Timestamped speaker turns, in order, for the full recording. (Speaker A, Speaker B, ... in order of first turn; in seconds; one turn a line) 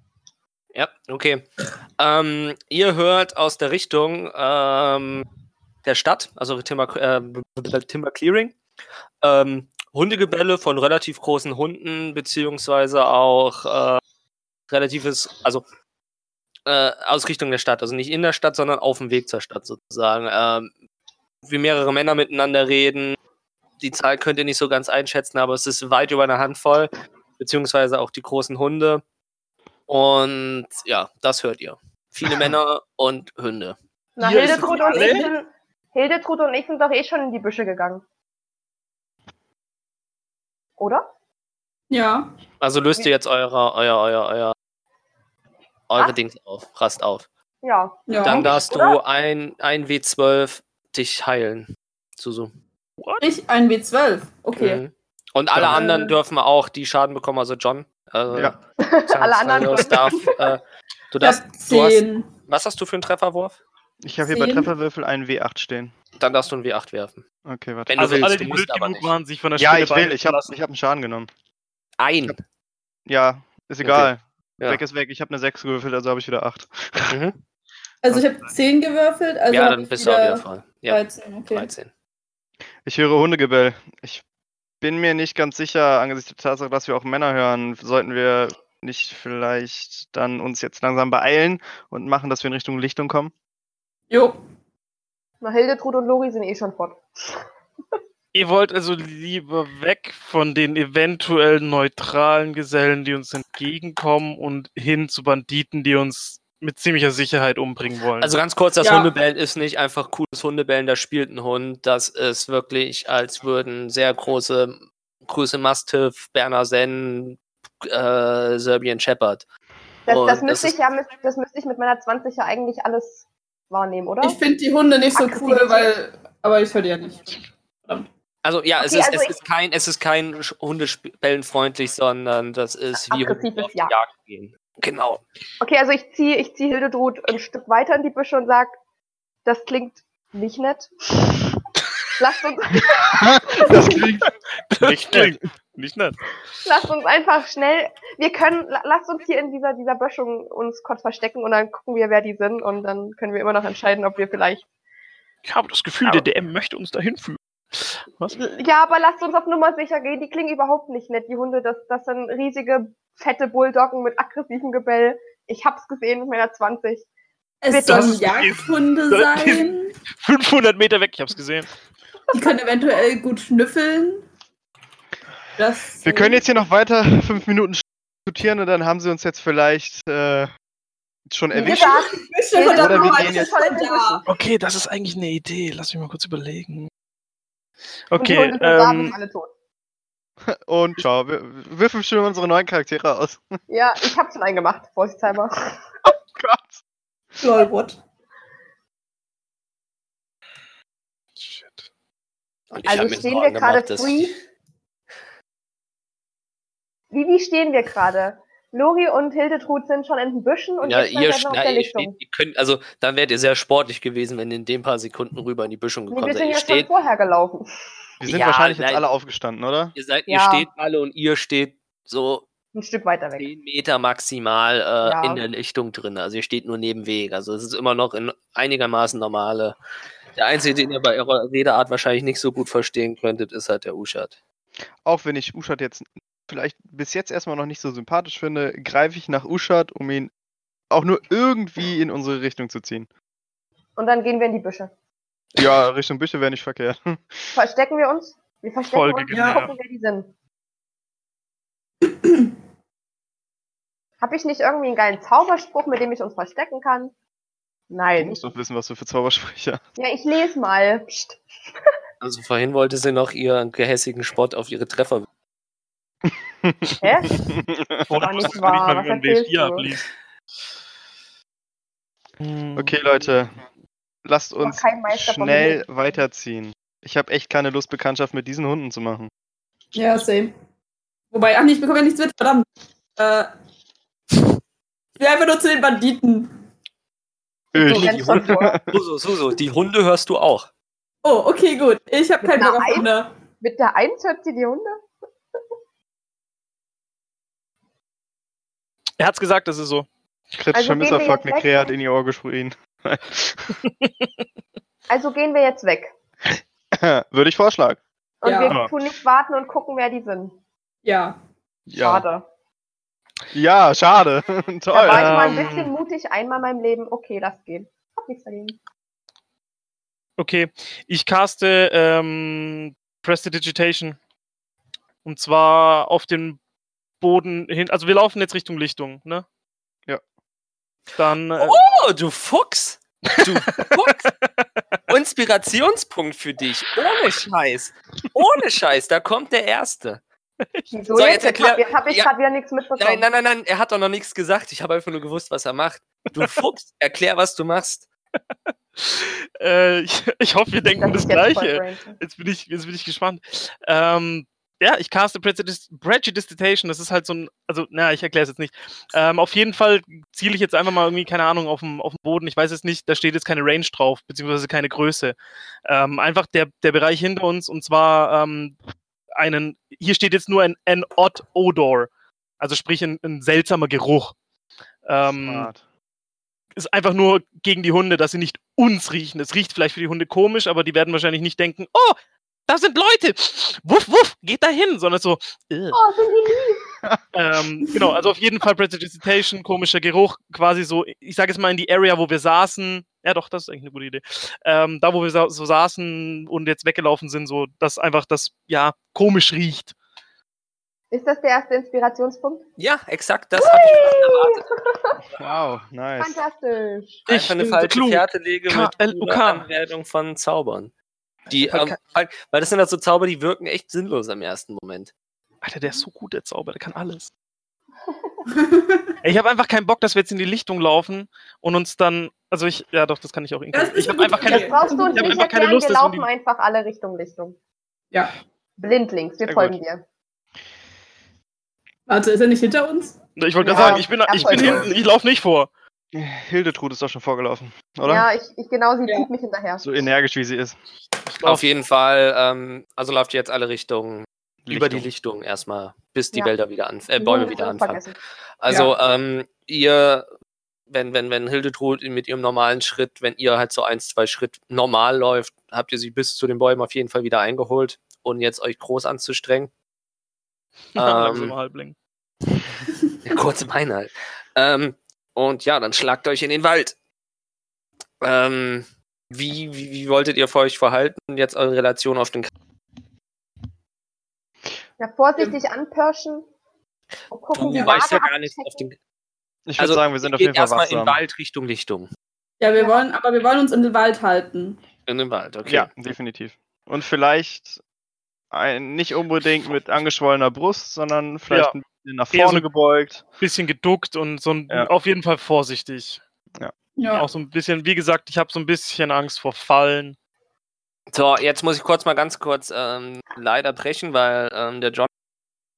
Speaker A: 0.7-1.5
Speaker A: 2.0-5.2
Speaker A: 5.8-8.5
Speaker A: 9.2-14.0
Speaker A: 14.7-15.6
Speaker A: 16.6-20.7
Speaker A: 21.4-23.2
Speaker A: 23.8-29.0
Speaker A: 29.9-33.8
Speaker B: 34.2-38.0
Speaker C: 34.2-35.3
Speaker B: 40.8-41.0
Speaker D: 41.9-42.3
Speaker A: 42.6-44.5
Speaker A: 45.9-47.2
Speaker B: 47.6-49.0
Speaker D: 48.1-48.5
Speaker A: 48.2-52.5
Speaker C: 53.0-53.2
Speaker D: 53.2-54.8
Speaker A: 54.5-63.6
Speaker E: 55.5-55.8
Speaker D: 55.8-56.1
Speaker B: 58.8-60.5
Speaker D: 61.2-62.3
Speaker E: 64.0-65.9
Speaker D: 64.2-64.7
Speaker A: 66.2-67.2
Speaker E: 67.4-68.2
Speaker A: 67.9-69.1
Speaker C: 68.0-70.5
Speaker E: 69.6-71.3
Speaker A: 72.0-72.4
Speaker E: 73.1-77.2
Speaker A: 73.8-74.1
Speaker A: 77.1-77.4
Speaker D: 78.0-81.7
Speaker A: 79.5-81.9
Speaker E: 82.8-84.2
Speaker E: 84.8-93.3
Speaker D: 94.1-94.4
Speaker B: 95.4-97.0
Speaker C: 98.3-108.3
Speaker A: 108.2-119.4
Speaker D: 108.8-109.1
Speaker A: 120.0-120.7
Speaker B: 120.1-124.4
Speaker D: 124.2-128.1
Speaker B: 125.1-126.0
Speaker A: 128.4-135.2
Speaker B: 128.8-129.3
Speaker B: 133.1-133.9
Speaker B: 135.6-138.7
Speaker B: 139.4-141.5
Speaker B: 142.2-144.0
Speaker E: 143.1-144.3
Speaker C: 144.7-146.2
Speaker E: 144.8-145.3
Speaker B: 146.6-154.6
Speaker C: 155.4-158.4
Speaker B: 158.3-167.0
Speaker D: 167.6-170.0
Speaker B: 167.7-168.3
Speaker C: 167.8-171.7
Speaker D: 172.3-174.2
Speaker D: 175.6-176.4
Speaker E: 176.0-180.5
Speaker E: 181.3-182.0
Speaker B: 181.5-184.2
Speaker D: 181.6-184.2
Speaker E: 182.7-183.5
Speaker C: 184.3-186.9
Speaker C: 188.1-189.2
Speaker B: 188.2-189.5
Speaker E: 190.4-193.5
Speaker B: 193.7-195.8
Speaker E: 196.1-196.8
Speaker D: 197.4-197.9
Speaker C: 201.4-201.8
Speaker A: 202.7-204.3
Speaker B: 202.8-204.3
Speaker B: 207.1-212.2
Speaker A: 210.8-216.9
Speaker B: 216.1-217.7
Speaker E: 218.2-219.9
Speaker A: 218.2-219.0
Speaker A: 219.9-222.5
Speaker B: 220.3-220.7
Speaker B: 222.7-223.5
Speaker A: 223.4-229.8
Speaker B: 225.0-225.4
Speaker A: 230.3-234.3
Speaker E: 235.0-240.3
Speaker E: 240.9-243.1
Speaker B: 244.0-244.9
Speaker E: 245.5-247.5
Speaker B: 247.5-250.3
Speaker C: 248.8-249.7
Speaker D: 249.3-249.6
Speaker B: 254.2-257.1
Speaker B: 257.9-258.4
Speaker E: 258.2-259.8
Speaker B: 259.9-261.4
Speaker A: 262.2-265.3
Speaker E: 266.6-267.8
Speaker B: 267.0-267.5
Speaker C: 268.0-270.1
Speaker B: 268.1-269.9
Speaker C: 272.4-272.9
Speaker E: 272.8-273.6
Speaker E: 274.2-279.3
Speaker B: 274.6-275.8
Speaker D: 279.9-280.5
Speaker D: 281.3-282.6
Speaker D: 283.2-283.5
Speaker D: 285.2-286.5
Speaker E: 287.7-289.0
Speaker B: 287.7-288.8
Speaker A: 287.8-290.7
Speaker D: 291.2-293.3
Speaker B: 292.4-293.1
Speaker B: 293.6-294.9
Speaker C: 299.2-300.1
Speaker E: 300.6-303.8
Speaker B: 300.7-301.9
Speaker C: 303.8-304.2
Speaker B: 305.1-306.1
Speaker E: 306.9-308.0
Speaker B: 308.4-310.6
Speaker D: 308.4-308.8
Speaker E: 308.6-308.9
Speaker D: 311.0-311.4
Speaker E: 311.9-312.2
Speaker B: 312.0-312.4
Speaker E: 313.5-315.7
Speaker B: 314.9-318.8
Speaker C: 315.1-315.9
Speaker C: 320.4-324.2
Speaker C: 325.2-326.6
Speaker C: 327.2-329.4
Speaker C: 331.2-331.8
Speaker A: 331.6-334.3
Speaker C: 333.3-334.6
Speaker A: 335.1-340.2
Speaker B: 340.9-343.2
Speaker A: 341.1-342.3
Speaker A: 343.0-348.1
Speaker C: 349.0-368.7
Speaker B: 350.9-352.2
Speaker C: 369.4-372.1
Speaker C: 372.6-374.3
Speaker C: 375.0-375.7
Speaker E: 375.2-375.8
Speaker C: 376.7-386.0
Speaker B: 385.9-386.8
Speaker C: 387.3-399.9
Speaker B: 401.1-402.6
Speaker A: 402.8-404.6
Speaker B: 403.6-405.2
Speaker E: 405.3-406.4
Speaker B: 406.2-407.2
Speaker C: 407.3-409.7
Speaker A: 407.3-410.9
Speaker A: 411.5-415.1
Speaker C: 411.5-411.9
Speaker C: 415.6-417.3
Speaker D: 418.5-419.1
Speaker C: 419.2-426.2
Speaker D: 423.7-425.4
Speaker B: 424.4-427.6
Speaker B: 428.8-430.0
Speaker E: 429.4-429.8
Speaker D: 432.1-433.2
Speaker C: 433.4-435.7
Speaker B: 433.6-434.9
Speaker E: 433.7-434.9
Speaker E: 436.1-438.3
Speaker B: 438.0-439.8
Speaker E: 439.8-440.8
Speaker C: 441.3-441.7
Speaker A: 441.4-448.0
Speaker E: 444.6-445.1
Speaker B: 447.2-448.1
Speaker A: 448.6-450.2
Speaker A: 450.9-459.7
Speaker C: 460.9-461.9
Speaker A: 460.9-461.5
Speaker A: 463.2-466.9
Speaker A: 468.2-472.5
Speaker B: 475.0-476.4
Speaker B: 477.3-478.9
Speaker A: 477.5-478.9
Speaker E: 479.7-481.2
Speaker A: 479.8-482.1
Speaker D: 482.6-484.8
Speaker A: 485.1-485.9
Speaker E: 485.7-487.8
Speaker E: 488.5-493.2
Speaker C: 492.3-492.7
Speaker C: 493.4-496.2
Speaker D: 497.0-497.3
Speaker C: 497.1-500.1
Speaker A: 501.1-505.1